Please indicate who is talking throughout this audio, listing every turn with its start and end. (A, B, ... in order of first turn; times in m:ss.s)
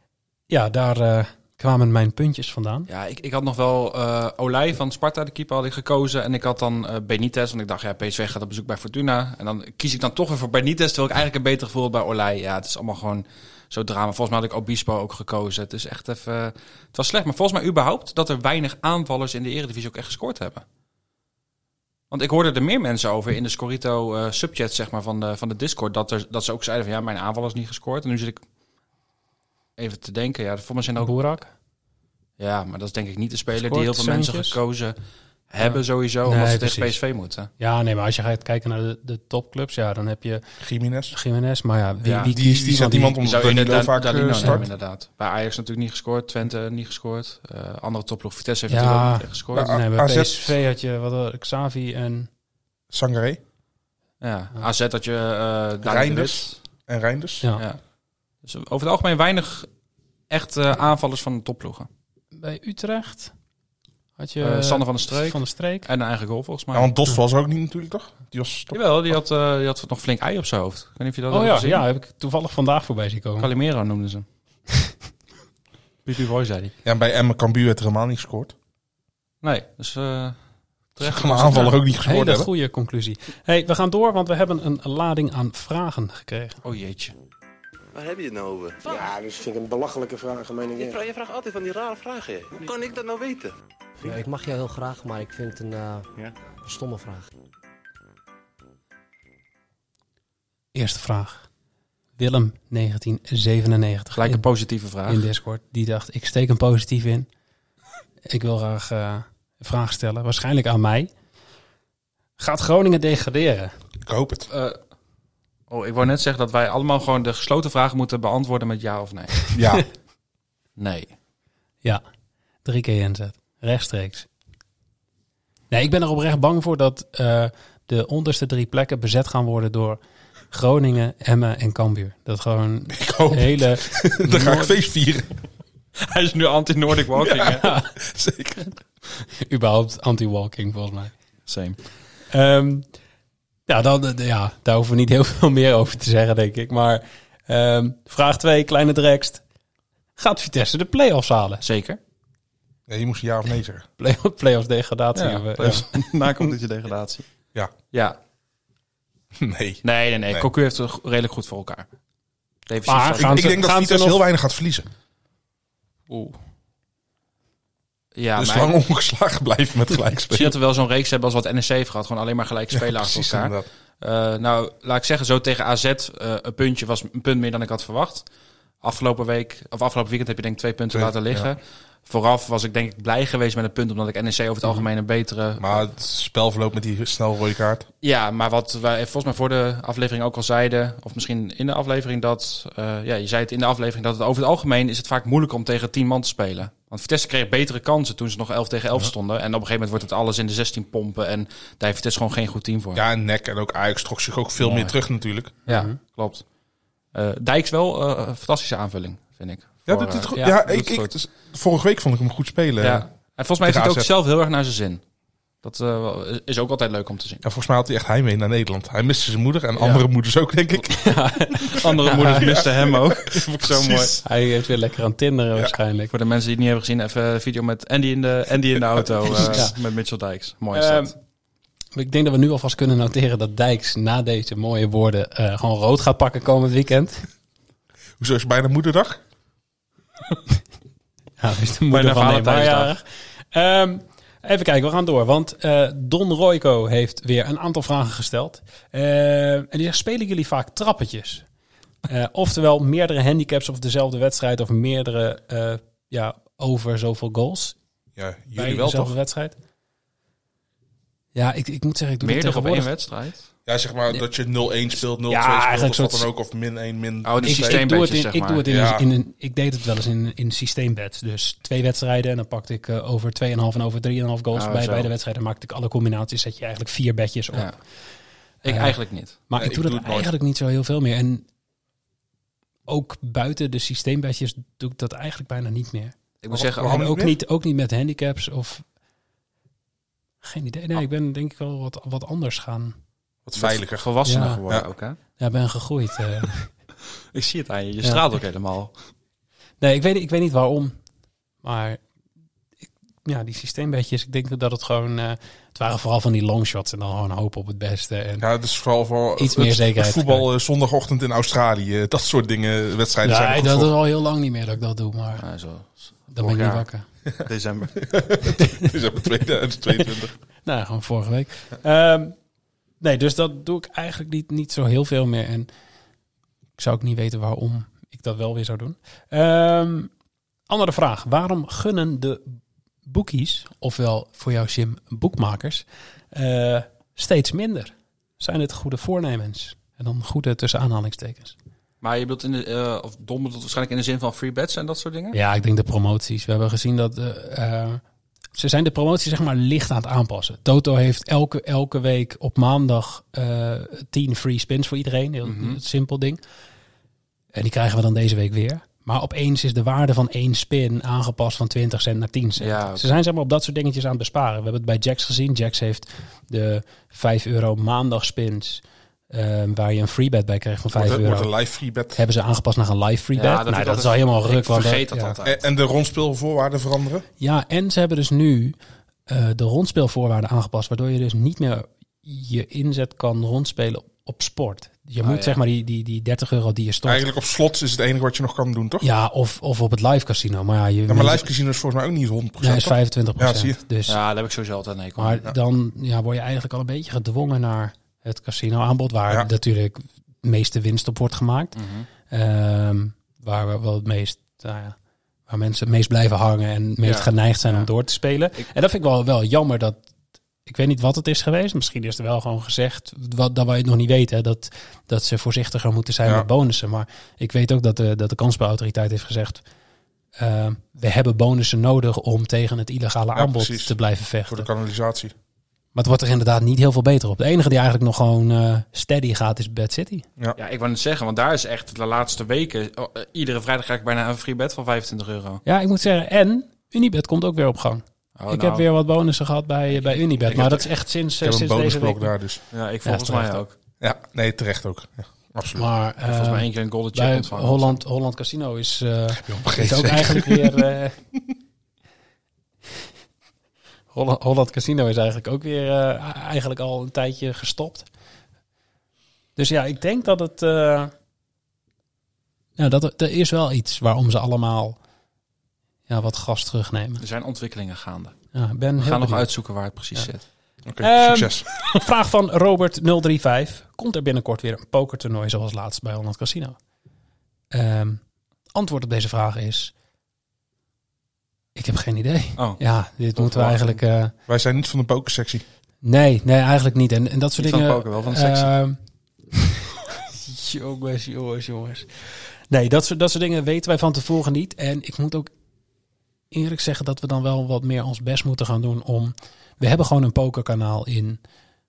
0:00.5-0:02.9 A
0:02.9-0:20.6 B
0:22.1-0:28.4 B
0:29.8-0:31.1 B
0:31.0-0:31.5 A
0:32.4-0:35.0 B
0:33.5-0:34.6 A
0:35.5-0:37.5 B
0:35.6-0:36.9 A
0:37.6-0:40.4 A
0:40.6-0:41.1 C
0:41.1-0:43.2 A
0:42.0-0:42.3 B
0:42.3-0:44.6 C
0:43.2-0:49.7 B
0:44.4-0:44.6 A
0:48.7-0:52.3 A
0:49.5-0:50.5 C
0:52.9-0:53.4 C
0:54.2-0:56.6 B
0:55.8-0:57.4 C
0:58.4-0:59.7 B
1:00.3-1:01.9 B
1:02.4-1:03.3 A
1:04.2-1:05.9 A
1:04.4-1:06.9 B
1:06.7-1:09.1 C
1:08.7-1:11.8 B
1:11.3-1:13.5 A
1:13.4-1:14.2 B
1:16.0-1:16.7 B
1:16.8-1:18.5 C
1:19.4-1:20.4 B
1:20.9-1:21.8 B
1:21.0-1:22.5 C
1:22.0-1:26.6 A
1:26.6-1:27.1 B
1:27.9-1:29.0 D
1:28.9-1:31.0 E
1:30.8-1:33.5 D
1:34.0-1:36.0 F
1:36.7-1:37.2 F
1:40.7-1:41.4 A
1:42.2-1:44.4 A
1:44.1-1:45.2 B
1:45.1-1:47.3 A
1:48.2-1:51.1 A
1:52.4-1:53.7 A
1:54.0-1:54.5 C
1:54.5-1:54.8 B
1:55.7-1:59.5 B
1:59.5-1:59.8 C
2:00.8-2:01.1 B
2:02.6-2:04.3 A
2:05.7-2:10.0 A
2:10.5-2:14.8 A
2:12.9-2:15.3 C
2:16.0-2:17.7 B
2:17.2-2:18.7 C
2:17.6-2:17.9 A
2:19.4-2:21.1 A
2:21.5-2:21.8 B
2:22.3-2:22.8 A
2:23.7-2:29.4 A
2:30.2-2:31.6 A
2:31.6-2:32.0 B
2:32.9-2:33.8 C
2:34.0-2:36.5 A
2:35.2-2:37.2 B
2:37.9-2:38.2 B
2:39.4-2:40.5 C
2:39.8-2:41.9 B
2:42.7-2:43.5 B
2:42.9-2:44.2 A
2:43.2-2:44.8 C
2:46.1-2:46.4 B
2:48.1-2:48.7 B
2:48.4-2:50.5 C
2:50.3-2:58.2 B
2:52.7-2:53.7 C
2:58.8-3:05.8 B
3:00.9-3:01.5 C
3:05.6-3:07.8 C
3:08.0-3:23.0 B
3:22.9-3:25.5 C
3:24.6-3:24.9 B
3:25.6-3:26.4 B
3:25.7-3:26.0 A
3:27.1-3:31.1 B
3:29.9-3:33.0 C
3:32.8-3:35.0 B
3:33.6-3:34.1 C
3:35.6-3:37.4 B
3:37.4-3:41.1 C
3:39.8-3:40.0 B
3:40.9-3:42.6 A
3:41.6-3:44.2 B
3:42.2-3:44.2 C
3:44.2-3:46.1 A
3:46.1-3:51.1 B
3:48.7-3:49.7 C
3:49.4-3:49.7 A
3:50.7-3:51.1 A
3:52.0-3:57.3 A
3:58.2-3:59.2 C
4:01.4-4:11.4 A
4:01.9-4:02.9 B
4:12.1-4:17.8 A
4:18.2-4:19.2 C
4:18.5-4:19.6 A
4:21.3-4:22.9 A
4:22.2-4:23.4 B
4:23.7-4:27.8 C
4:25.3-4:26.3 A
4:27.2-4:28.6 B
4:27.4-4:37.7 A
4:28.6-4:29.0 C
4:34.5-4:35.1 B
4:38.6-4:39.4 B
4:38.6-4:39.0 A
4:39.5-4:41.4 A
4:39.6-4:40.3 C
4:42.9-4:48.8 A
4:46.4-4:47.1 B
4:46.8-4:47.3 C
4:50.4-4:53.0 A
4:53.4-4:54.0 C
4:53.6-4:55.2 B
4:54.2-4:54.6 A
4:55.4-4:56.7 A
4:57.3-4:58.9 B
4:59.8-5:01.0 A
5:01.6-5:02.0 A
5:03.2-5:08.5 A
5:08.4-5:13.9 C
5:09.4-5:10.5 A
5:13.2-5:15.4 A
5:15.4-5:16.8 B
5:16.3-5:17.0 A
5:17.4-5:18.0 B
5:18.0-5:20.3 C
5:20.6-5:22.4 A
5:23.0-5:25.7 A
5:26.8-5:30.1 A
5:30.7-5:41.5 A
5:42.0-5:45.4 B
5:45.3-5:48.0 A
5:48.5-5:56.4 A
5:55.4-5:55.8 B
5:57.5-6:11.5 A
6:02.6-6:03.2 B
6:10.9-6:12.2 C
6:12.1-6:15.4 A
6:13.3-6:15.5 B
6:15.4-6:17.2 C
6:17.4-6:18.8 A
6:19.3-6:27.2 A
6:25.2-6:25.6 B
6:27.0-6:29.1 C
6:29.0-6:31.5 A
6:31.1-6:33.8 C
6:32.6-6:34.2 A
6:34.1-6:35.4 B
6:35.2-6:41.7 A
6:41.7-6:42.1 B
6:42.3-6:50.0 A
6:47.0-6:47.9 B
6:50.6-6:59.6 A
7:00.4-7:04.7 A
7:03.3-7:04.0 C
7:04.5-7:05.3 C
7:05.9-7:10.2 A
7:10.6-7:15.6 B
7:15.6-7:22.3 A
7:18.4-7:18.8 B
7:19.9-7:20.8 B
7:20.5-7:20.8 C
7:21.4-7:22.6 C
7:22.7-7:23.7 B
7:23.0-7:23.6 A
7:24.0-7:25.8 C
7:25.7-7:31.1 A
7:26.2-7:28.0 B
7:29.4-7:30.8 C
7:34.1-7:38.0 A
7:39.6-7:41.1 A
7:42.8-7:45.0 A
7:46.1-7:47.2 A
7:47.2-7:48.4 B
7:48.5-7:49.4 A
7:49.0-7:50.4 B
7:50.8-7:51.7 C
7:51.0-7:56.8 A
7:57.7-7:58.2 A
7:58.7-7:59.9 A
8:01.8-8:04.3 A
8:03.3-8:04.0 B
8:04.5-8:05.6 C
8:06.0-8:09.0 A
8:07.6-8:08.7 B
8:10.3-8:15.5 A
8:16.5-8:21.4 A